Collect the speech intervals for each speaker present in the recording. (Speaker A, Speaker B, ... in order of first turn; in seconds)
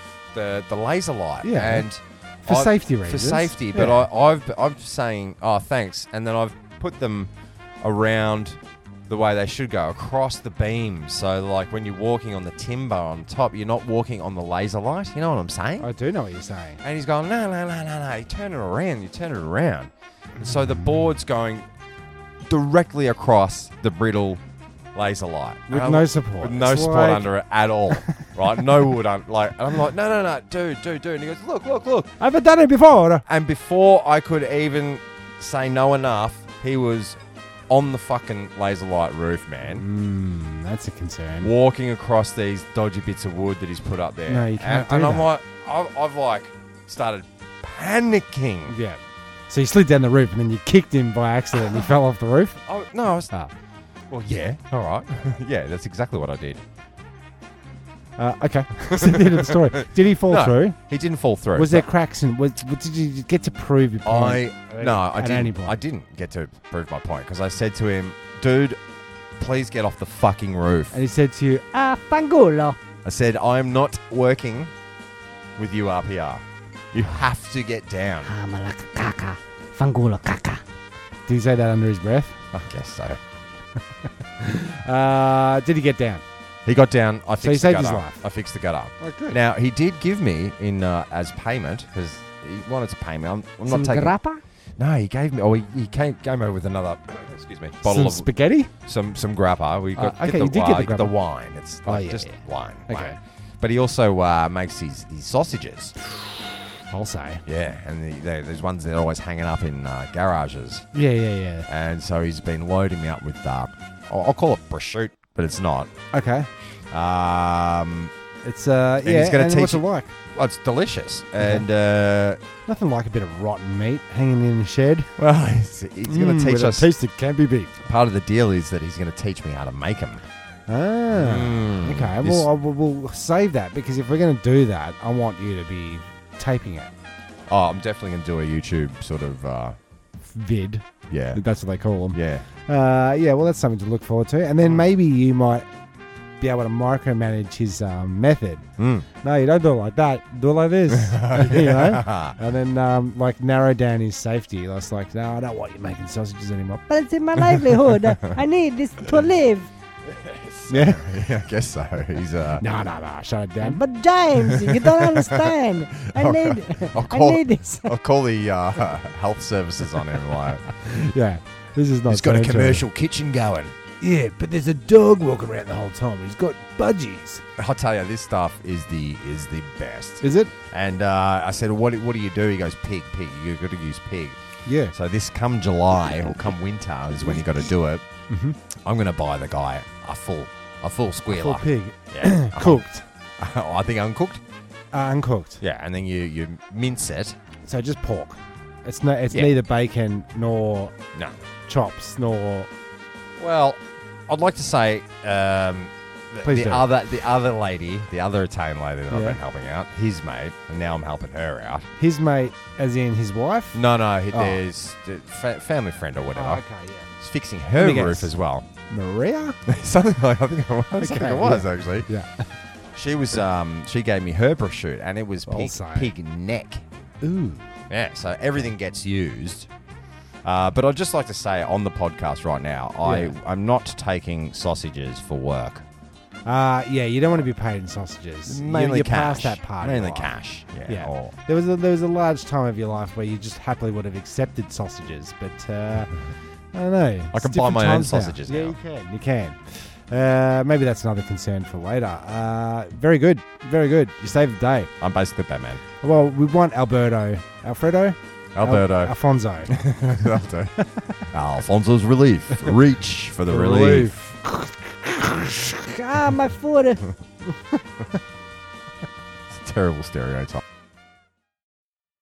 Speaker A: 0.3-15.9, 16.8-21.7, 22.4-24.4, 24.9-32.1, 33.2-39.9, 41.4-48.8, 52.6-53.3, 54.1-56.6, 58.9-61.9, 64.0-68.8, 69.4-71.0, 73.0-74.7, 75.6-78.3, 82.5-83.2, 86.6-94.1, 94.8-98.3, 98.8-106.0, 107.5-110.8, 111.7-115.9, 116.9-118.1, 119.0-122.4, 125.2-126.9, 127.8-130.2, 131.1-132.5, 137.5-139.8, 141.1-141.4, 142.1-142.4, 148.8-149.1, 150.9-152.4, 157.4-158.4, 160.1-162.7, 164.5-170.6, 172.1-173.8, 177.6-184.4, 184.9-188.1, 188.8-192.8, 193.4-194.4, 195.6-197.4, 201.1-201.4, 203.4-211.9, 213.7-216.6, 217.2-218.7, 219.7-222.1, 222.9-226.8, 227.9-229.7, 230.4-235.8, 238.5-241.3, 247.3-248.8, 255.0-255.8, 258.6-259.1, 259.7-260.8, 261.3-264.1, 269.5-270.6
Speaker B: 1.4-1.9, 2.5-4.0, 15.8-16.8, 20.4-20.8, 25.7-27.3, 32.2-33.2, 39.6-41.5, 44.3-45.3, 48.7-52.6, 58.2-60.8, 61.5-65.8, 70.9-71.6, 81.3-82.4, 84.4-86.2, 87.4-88.2, 89.0-89.4, 97.8-98.7, 100.0-101.2, 101.8-103.2, 106.9-107.4, 110.9-111.7, 116.1-116.5, 118.4-120.1, 121.4-121.6, 122.7-125.1, 126.0-127.8, 130.7-136.9, 140.2-145.7, 146.4-156.8, 160.7-161.1, 162.6-163.8, 170.8-172.9, 174.0-177.4, 180.2-180.5, 184.7-184.9, 188.3-188.6, 191.3-193.0, 194.9-195.6, 197.6-200.9, 201.7-202.7, 206.4-206.9, 209.1-209.4, 212.0-214.6, 216.3-217.1, 217.8-218.3, 218.9-219.6, 220.9-222.4, 225.5-226.1, 227.2-227.6, 233.0-233.3, 236.5-246.1, 246.7-254.9, 256.0-259.8, 263.5-265.9
Speaker C: 71.7-72.8, 78.2-80.6, 93.7-94.4, 156.9-159.7, 163.6-167.9, 265.8-267.1